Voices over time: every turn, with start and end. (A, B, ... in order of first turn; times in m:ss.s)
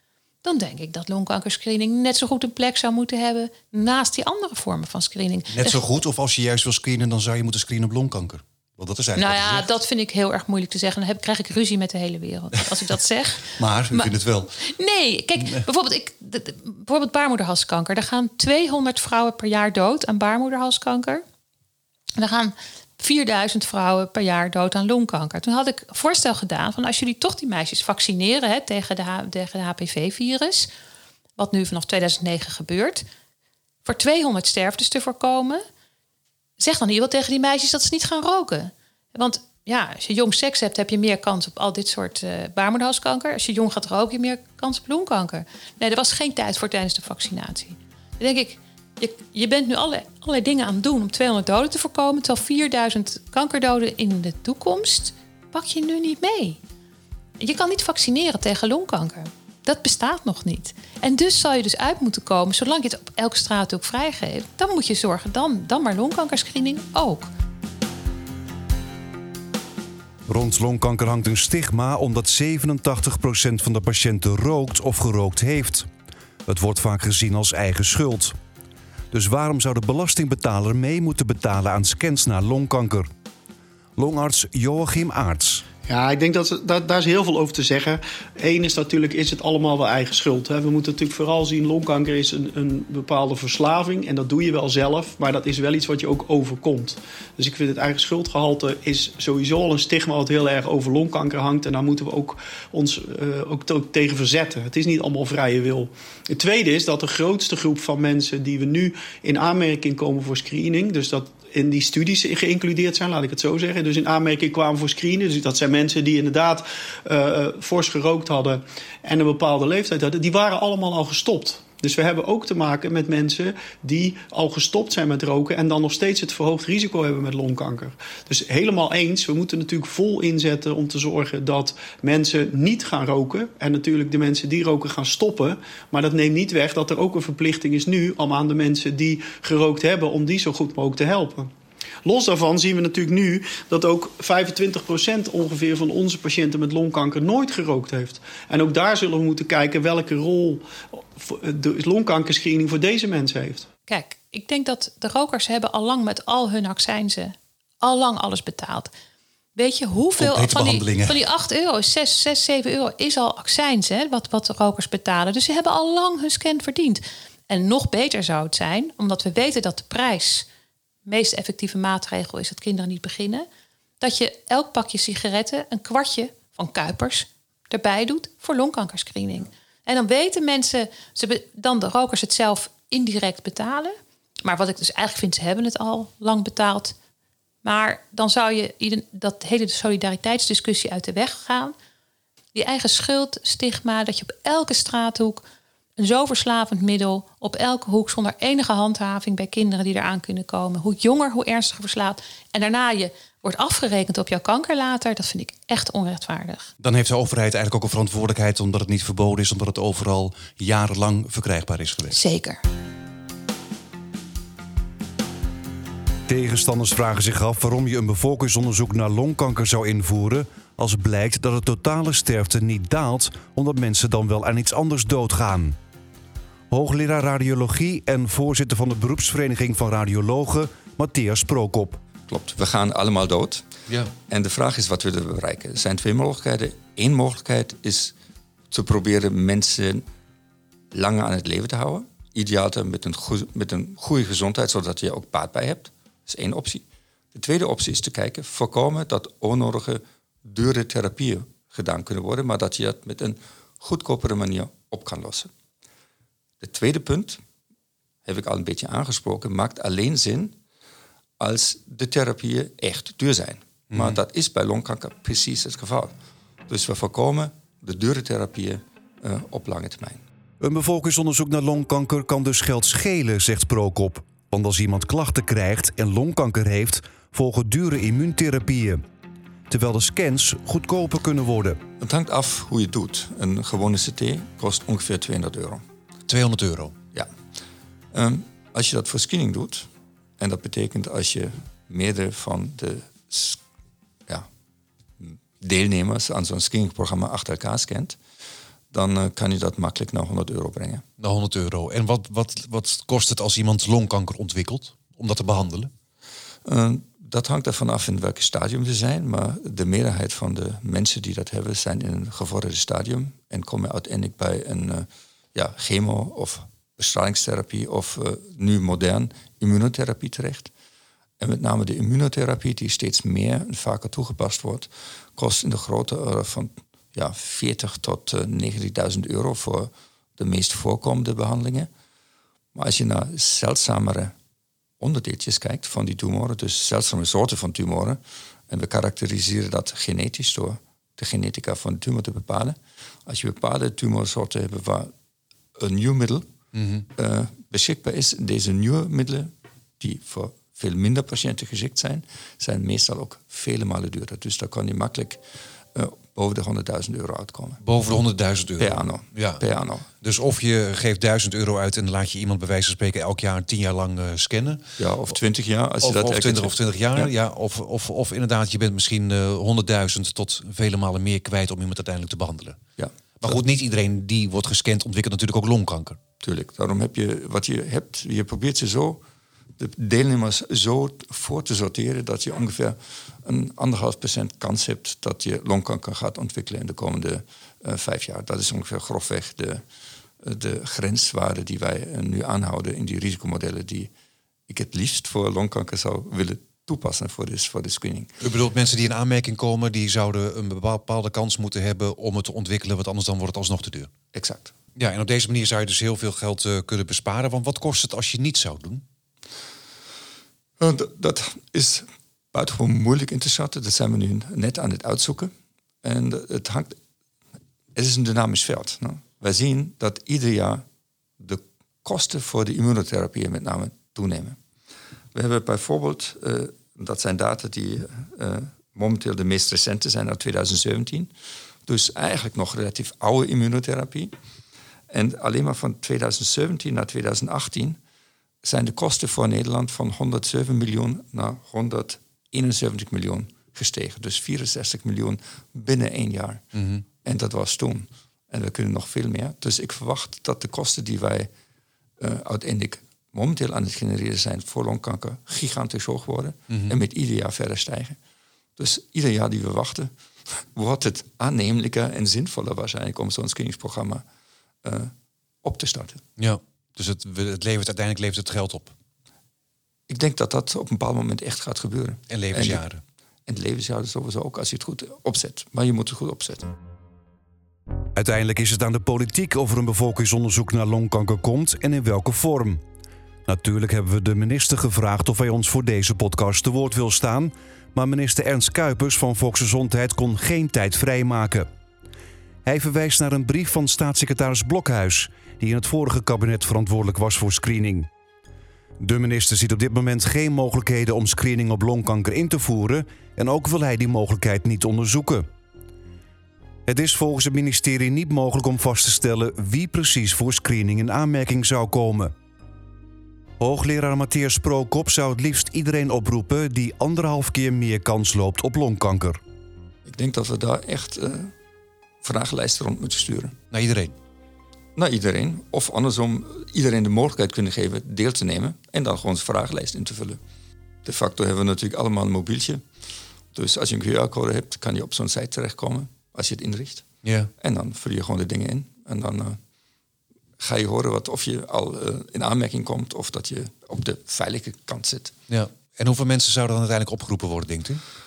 0:00.4-0:05.8 A
0:05.6-0:09.6 B
0:09.2-0:21.2 A
0:13.6-0:14.4 B
0:22.2-0:30.7 A
0:31.4-0:33.0 A
0:33.8-0:35.6 A
0:36.6-0:56.6 A
0:57.4-1:07.3 A
1:10.3-1:15.9 C
1:16.5-1:18.4 C
1:19.1-1:23.1 C
1:24.0-1:25.6 C
1:25.9-2:21.5 D
2:22.0-2:33.7 D
2:33.9-2:38.9 A
2:39.6-2:50.5 A
2:40.2-2:41.2 B
2:51.1-2:53.5 A
2:54.0-3:07.0 A
3:07.6-3:11.7 A
3:12.5-3:15.4 A
3:16.0-3:26.7 A
3:26.8-3:32.2 B
3:32.1-3:32.6 A
3:36.3-3:45.8 C
3:46.7-3:52.0 C
3:52.3-3:53.7 E
3:54.3-3:58.1 E
3:58.7-4:00.0 E
4:00.9-4:15.5 E
4:16.6-4:17.4 E
4:18.2-4:20.6 E
4:21.4-4:26.2 E
4:26.7-4:30.2 E
4:30.6-4:39.0 C
4:39.7-4:41.8 C
4:42.0-4:45.8 E
4:46.3-4:47.0 B
4:48.1-4:53.6 E
4:55.2-4:58.2 E
4:58.9-5:01.0 E
5:01.2-5:05.9 B
5:06.6-5:20.7 E
5:21.4-5:31.9 E
5:32.7-5:34.4 E
5:35.0-5:45.1 E
5:45.8-5:46.5 E
5:46.8-5:47.0 B
5:47.2-5:55.4 E
5:55.9-5:57.8 E
5:57.8-5:59.6 B
5:58.8-6:00.1 E
6:00.2-6:04.8 B
6:05.0-6:07.3 E
6:06.0-6:12.8 B
6:13.0-6:13.6 E
6:13.4-6:16.2 B
6:16.4-6:19.2 E
6:19.8-6:29.8 E
6:30.4-6:34.1 E
6:34.7-6:38.4 E
6:38.4-6:44.1 B
6:44.3-6:44.7 E
6:45.0-6:49.0 B
6:50.8-6:57.0 E
6:58.0-7:00.8 E
7:01.4-7:04.6 E
7:05.3-7:11.3 E
7:11.9-7:14.3 E
7:15.1-7:18.0 E
7:18.6-7:26.7 E
7:26.8-7:27.0 B
7:27.2-7:31.5 E
7:32.2-7:38.2 E
7:36.7-7:37.0 B
7:38.8-7:44.2 E
7:44.8-7:46.2 E
7:46.4-7:48.9 B
7:50.1-7:52.8 E
7:52.3-7:53.0 B
7:53.5-7:56.7 E
7:58.2-8:02.8 C
8:03.5-8:11.7 C
8:12.6-8:18.1 C
8:19.0-8:25.5 C
8:26.9-8:32.3 C
8:33.6-8:39.4 C
8:40.1-8:41.5 E
8:42.2-8:43.6 E
8:43.7-8:44.1 B
8:45.0-8:50.4 E
8:51.0-8:52.8 E
8:53.5-8:59.6 E
8:57.2-8:57.5 B
9:00.6-9:05.4 E
9:05.5-9:08.0 B